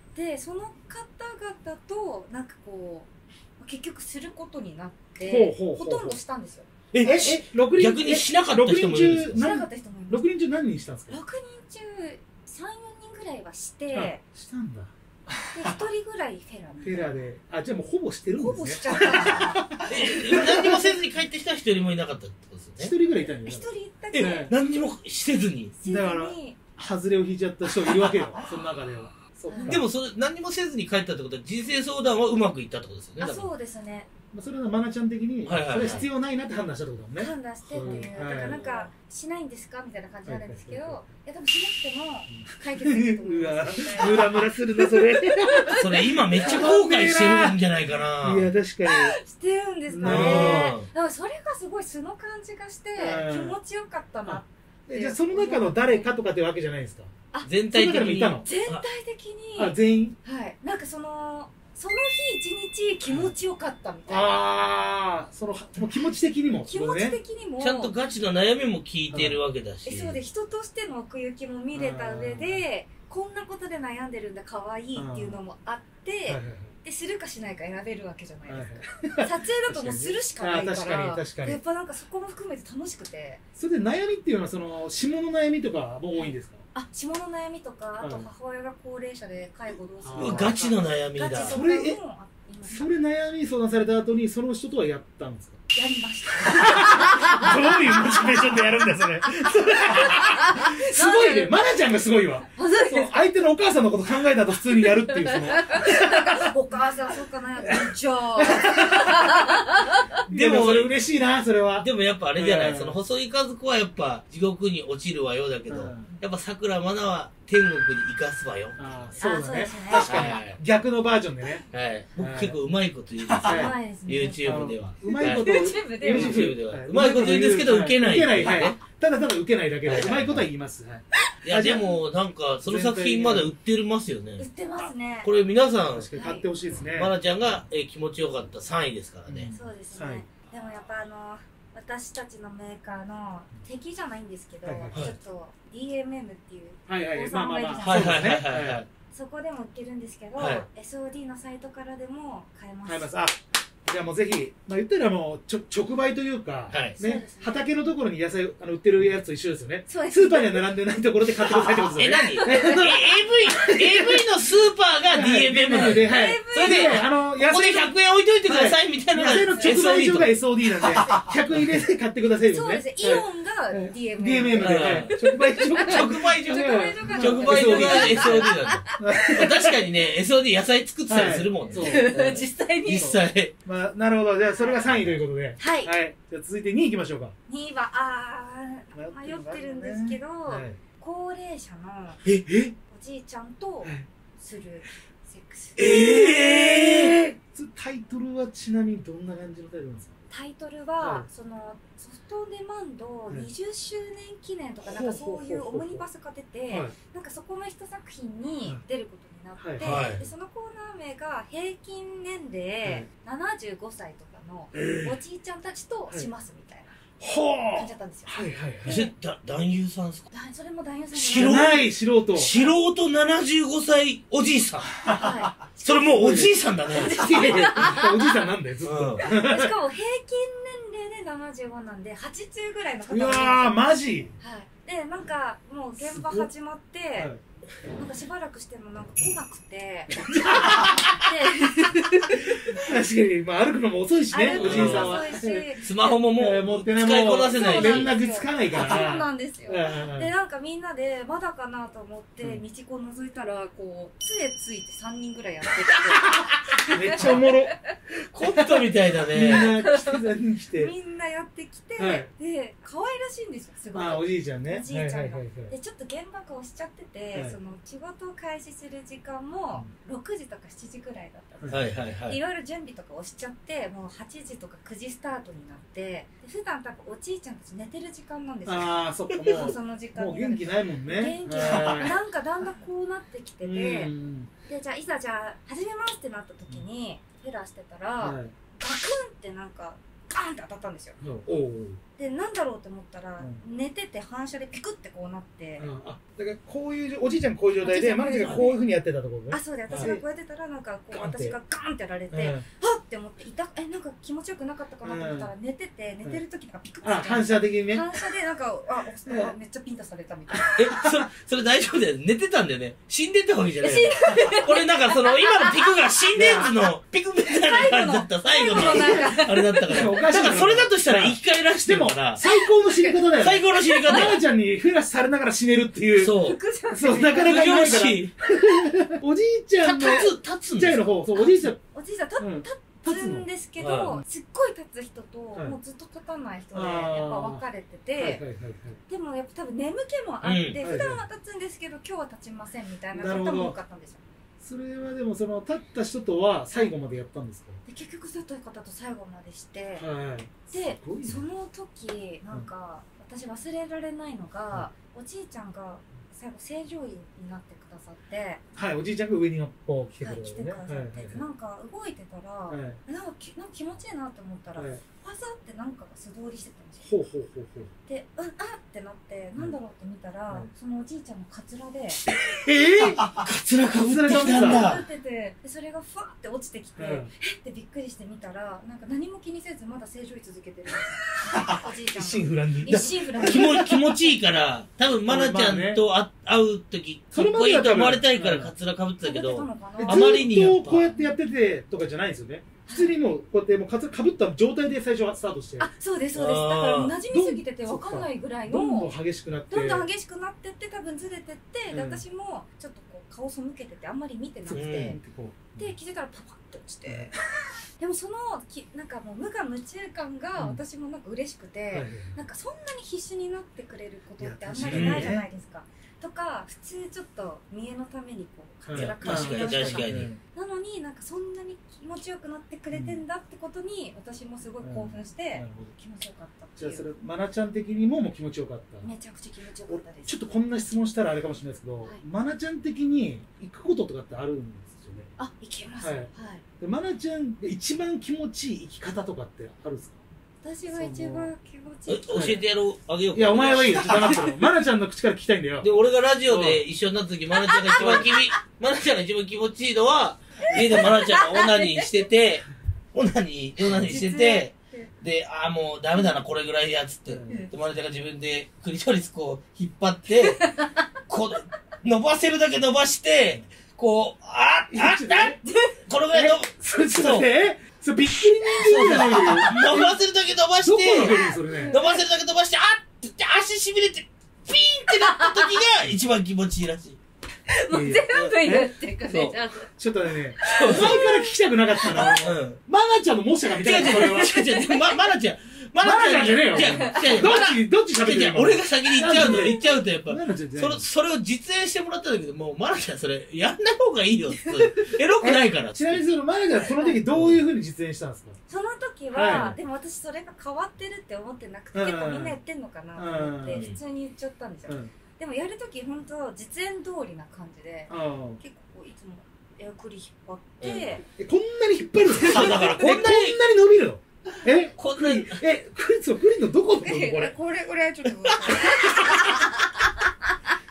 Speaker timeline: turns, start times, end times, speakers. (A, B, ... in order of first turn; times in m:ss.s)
0:00.1-0:06.7 A
0:05.2-0:06.2 B
0:06.9-0:09.4 C
0:07.0-0:11.2 B
0:09.3-0:10.3 A
0:11.1-0:14.2 A
0:13.9-0:15.8 B
0:15.5-0:17.2 A
0:16.8-0:20.9 B
0:18.4-0:20.8 A
0:19.8-0:22.9 C
0:22.8-0:24.5 B
0:23.4-0:24.5 A
0:24.1-0:25.7 C
0:25.8-0:26.6 A
0:25.8-0:29.9 B
0:27.8-0:28.2 C
0:29.5-0:29.8 A
0:29.6-0:33.5 C
0:33.2-0:34.1 A
0:34.3-0:38.7 B
0:35.4-0:36.0 C
0:35.7-0:36.0 A
0:37.2-0:46.4 A
0:37.8-0:38.8 C
0:40.2-0:41.0 B
0:42.3-0:47.7 B
0:45.7-0:48.5 C
0:48.2-0:49.2 B
0:48.8-0:56.1 A
0:49.9-0:50.8 B
0:50.0-0:50.9 C
0:53.0-0:53.6 B
0:54.2-0:57.1 B
0:57.4-0:58.8 C
0:57.7-0:58.5 B
0:58.4-1:04.4 A
0:59.6-1:00.2 B
1:04.1-1:07.2 B
1:06.7-1:07.9 A
1:07.6-1:10.2 C
1:09.1-1:09.4 B
1:09.8-1:23.4 A
1:11.7-1:12.6 B
1:15.0-1:15.4 B
1:16.3-1:16.7 B
1:18.5-1:21.6 B
1:23.6-1:26.6 B
1:26.1-1:32.9 A
1:28.0-1:28.3 B
1:30.0-1:30.6 B
1:30.2-1:31.6 C
1:31.3-1:32.0 B
1:32.6-1:35.6 B
1:35.7-1:38.5 A
1:36.4-1:46.5 B
1:39.2-1:41.6 A
1:42.6-1:43.2 A
1:45.1-1:50.1 A
1:47.6-1:49.5 B
1:50.3-1:53.0 B
1:50.3-1:51.0 C
1:51.8-1:59.2 C
1:55.7-1:56.1 B
1:58.8-2:01.6 B
1:59.2-2:00.2 A
1:59.9-2:00.6 C
2:01.7-2:08.8 C
2:02.2-2:02.6 B
2:03.3-2:03.7 B
2:03.4-2:06.5 A
2:04.4-2:12.0 B
2:09.8-2:10.4 C
2:11.4-2:14.4 C
2:12.6-2:13.5 B
2:14.4-2:15.3 A
2:15.2-2:16.1 C
2:15.9-2:17.1 B
2:16.1-2:16.5 A
2:16.9-2:19.5 C
2:19.3-2:20.2 B
2:19.5-2:28.2 A
2:24.6-2:25.0 B
2:26.9-2:28.8 B
2:27.8-2:28.9 C
2:29.1-2:33.1 A
2:30.4-2:30.6 C
2:32.8-2:44.3 B
2:36.7-2:37.0 C
2:37.0-2:37.6 A
2:39.9-2:40.6 A
2:41.6-2:50.3 C
2:45.1-2:47.9 B
2:45.7-2:47.0 A
2:48.4-2:59.8 B
2:49.3-2:50.0 A
2:50.9-2:51.6 C
2:52.5-2:59.0 A
2:54.6-2:55.2 C
2:55.7-3:03.5 C
3:01.1-3:02.1 B
3:01.7-3:03.1 A
3:03.0-3:07.3 B
3:04.5-3:04.9 A
3:04.8-3:05.1 C
3:05.6-3:05.9 A
3:07.5-3:12.2 A
3:08.9-3:10.8 B
3:12.4-3:12.7 B
3:12.9-3:16.9 A
3:15.8-3:17.2 C
3:15.8-3:20.2 B
3:20.3-3:37.0 A
3:21.0-3:21.3 B
3:24.8-3:26.0 B
3:29.6-3:30.0 B
3:29.8-3:30.2 C
3:34.7-3:35.2 B
3:37.2-3:39.1 B
3:37.7-3:39.0 A
3:38.8-3:40.2 C
3:40.3-3:41.7 A
3:41.1-3:44.9 C
3:41.4-3:42.5 B
3:45.0-3:45.5 B
3:45.1-3:48.4 A
3:45.8-3:47.2 C
3:46.0-3:49.8 B
3:48.8-3:49.2 C
3:49.2-3:53.8 A
3:53.1-3:54.3 B
3:54.4-3:57.3 A
3:56.0-3:56.5 B
3:57.9-4:02.8 A
4:00.2-4:01.0 B
4:02.6-4:05.8 B
4:04.3-4:06.1 A
4:04.5-4:05.2 C
4:05.8-4:08.2 C
4:06.3-4:10.3 B
4:07.5-4:17.9 A
4:08.7-4:09.1 C
4:16.3-4:17.7 B
4:18.3-4:19.7 C
4:18.5-4:20.9 B
4:19.4-4:44.1 A
4:22.0-4:22.3 B
4:23.9-4:25.7 B
4:31.6-4:31.9 B
4:31.7-4:32.4 C
4:38.6-4:42.2 B
4:43.6-4:44.5 B
4:44.7-4:51.2 A
4:48.2-4:48.5 B
4:51.2-4:52.0 B
4:52.2-4:55.9 A
4:55.8-5:00.2 B
4:57.8-4:58.8 A
4:59.5-5:11.0 A
5:01.1-5:01.6 B
5:02.3-5:02.6 B
5:05.0-5:05.5 B
5:07.0-5:08.0 B
5:09.2-5:09.5 B
5:10.7-5:22.4 C
5:13.8-5:16.6 A
5:16.3-5:16.7 B
5:17.5-5:20.1 A
5:18.7-5:26.4 B
5:22.4-5:24.3 A
5:23.4-5:24.4 C
5:26.2-5:26.6 C
5:26.4-5:28.1 A
5:26.9-5:31.8 B
5:27.2-5:28.3 C
5:29.8-5:31.0 C
5:31.3-5:38.4 A
5:32.4-5:33.4 B
5:33.8-5:34.2 C
5:36.7-5:37.6 B
5:38.2-5:39.0 B
5:39.1-5:44.2 A
5:40.4-5:40.8 C
5:40.8-5:41.2 B
5:43.1-5:43.8 B
5:44.6-5:47.8 B
5:47.8-5:50.1 A
5:50.0-5:51.4 B
5:50.7-5:58.6 A
5:58.7-6:01.4 B
6:00.2-6:07.1 A
6:02.7-6:03.0 B
6:04.8-6:05.0 B
6:07.0-6:07.9 B
6:08.1-6:12.2 A
6:12.5-6:15.0 C
6:12.7-6:13.3 B
6:13.9-6:14.9 B
6:14.3-6:24.2 A
6:17.0-6:17.3 B
6:21.6-6:23.9 B
6:22.9-6:31.1 C
6:25.3-6:26.0 B
6:27.3-6:28.7 B
6:29.2-6:30.5 A
6:30.0-6:35.9 B
6:32.8-6:33.1 A
6:35.8-6:39.1 A
6:36.3-6:37.2 C
6:37.3-6:40.1 B
6:39.7-6:45.2 A
6:41.9-6:42.2 B
6:44.6-6:45.9 B
6:44.7-6:45.2 C
6:45.7-6:47.4 A
6:47.0-6:47.4 B
6:48.0-7:07.0 A
6:51.9-6:52.3 B
6:54.4-6:55.5 B
6:54.9-6:55.3 C
6:58.8-7:00.4 B
6:58.9-7:00.3 C
7:02.9-7:03.2 B
7:04.8-7:05.9 B
7:06.8-7:09.1 B
7:09.0-7:10.4 A
7:09.9-7:15.3 B
7:15.4-7:16.6 A
7:16.0-7:20.2 B
7:20.6-7:22.6 A
7:20.9-7:21.5 B
7:22.1-7:24.6 C
7:22.3-7:22.6 B
7:23.3-7:25.9 B
7:25.8-7:40.7 C
7:26.5-7:26.8 B
7:27.5-7:28.6 A
7:28.0-7:28.3 B
7:30.6-7:32.1 A
7:30.7-7:31.1 B
7:33.9-7:35.1 A
7:37.3-7:37.7 B
7:40.4-7:41.1 A
7:41.3-7:47.5 C
7:44.9-7:45.6 B
7:45.6-7:46.0 A
7:46.3-7:50.2 B
7:48.6-7:48.9 A
7:48.8-7:57.2 C
7:50.8-7:52.0 B
7:51.2-7:52.2 A
7:55.1-7:55.8 A
7:57.7-7:59.9 A
7:57.9-7:58.9 B
7:59.3-7:59.6 C
8:00.0-8:04.6 B
8:00.6-8:02.4 A
8:00.6-8:01.2 C
8:02.2-8:02.8 C
8:03.8-8:16.2 C
8:04.1-8:05.2 A
8:06.0-8:11.0 B
8:06.7-8:07.5 A
8:14.6-8:15.2 A
8:15.4-8:18.6 B
8:16.8-8:17.2 A
8:17.3-8:17.6 C
8:18.7-8:31.2 A
8:19.3-8:19.8 B
8:21.9-8:22.6 B
8:23.2-8:23.8 B
8:23.7-8:24.0 C
8:28.1-8:28.6 B
8:30.8-8:31.2 C
8:31.4-8:37.5 B
8:32.4-8:33.6 C
8:35.0-8:35.6 C
8:37.0-8:40.1 A
8:38.4-8:39.5 C